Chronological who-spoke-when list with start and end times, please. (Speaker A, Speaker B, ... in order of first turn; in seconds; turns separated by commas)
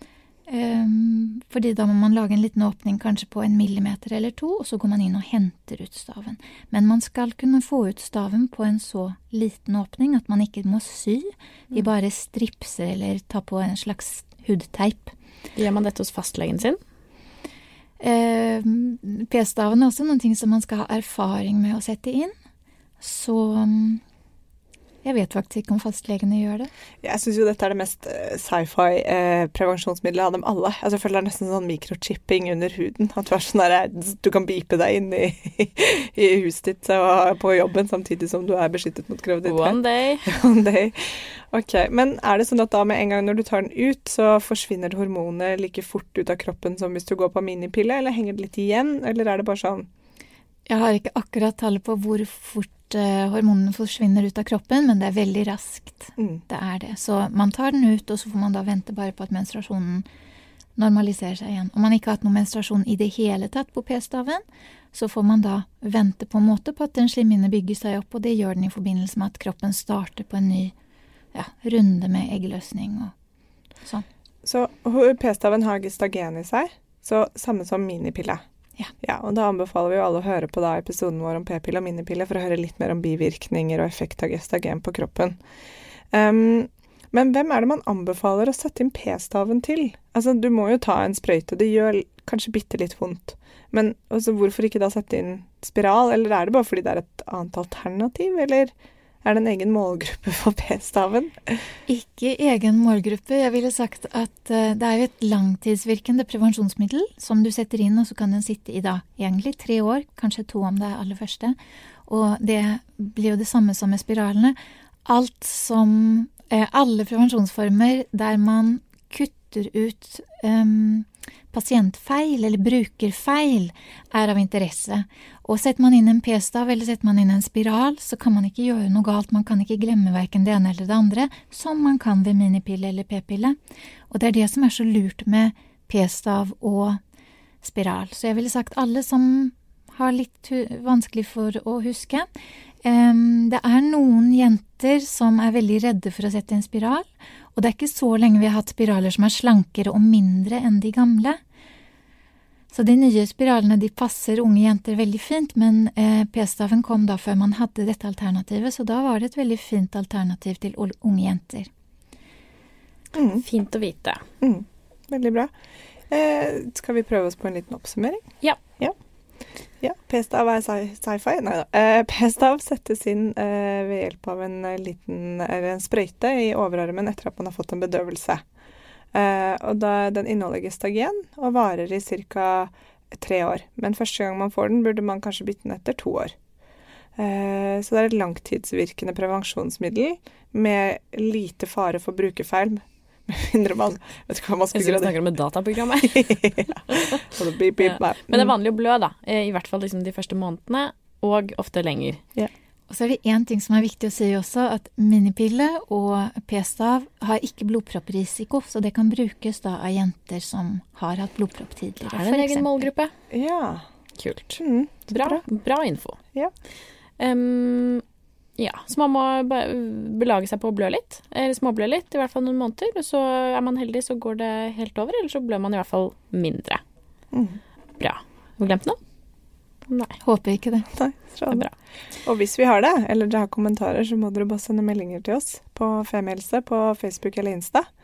Speaker A: 0.5-15.1, Speaker B: 15.6-16.8, Speaker A: 18.0-22.3, Speaker A: 23.0-24.0, Speaker A: 25.0-26.7, Speaker C: 27.0-49.9, Speaker B: 39.5-40.3, Speaker A: 50.7-60.0, Speaker C: 56.2-56.4, Speaker A: 60.8-70.7, Speaker A: 71.3-73.1, Speaker C: 74.4-78.4, Speaker C: 79.0-85.4, Speaker C: 86.1-98.7, Speaker C: 99.2-101.3, Speaker A: 101.9-111.6, Speaker A: 112.1-133.6, Speaker A: 134.1-137.0, Speaker A: 137.6-142.3, Speaker A: 142.8-151.4, Speaker A: 152.7-161.7, Speaker C: 163.2-163.4, Speaker B: 163.4-164.2, Speaker C: 164.4-165.5, Speaker C: 166.1-168.2, Speaker C: 169.8-178.4, Speaker C: 179.1-186.3, Speaker C: 187.2-195.2, Speaker B: 194.7-197.2, Speaker C: 196.1-198.5, Speaker B: 197.8-202.2, Speaker A: 202.9-212.9, Speaker B: 212.1-213.1, Speaker C: 213.3-213.8, Speaker B: 214.2-216.2, Speaker C: 214.6-215.4, Speaker B: 217.2-218.0, Speaker B: 218.6-226.8, Speaker C: 227.3-227.6, Speaker B: 228.0-229.0, Speaker B: 229.9-230.2, Speaker A: 230.2-230.9, Speaker C: 231.0-231.7, Speaker C: 232.2-237.9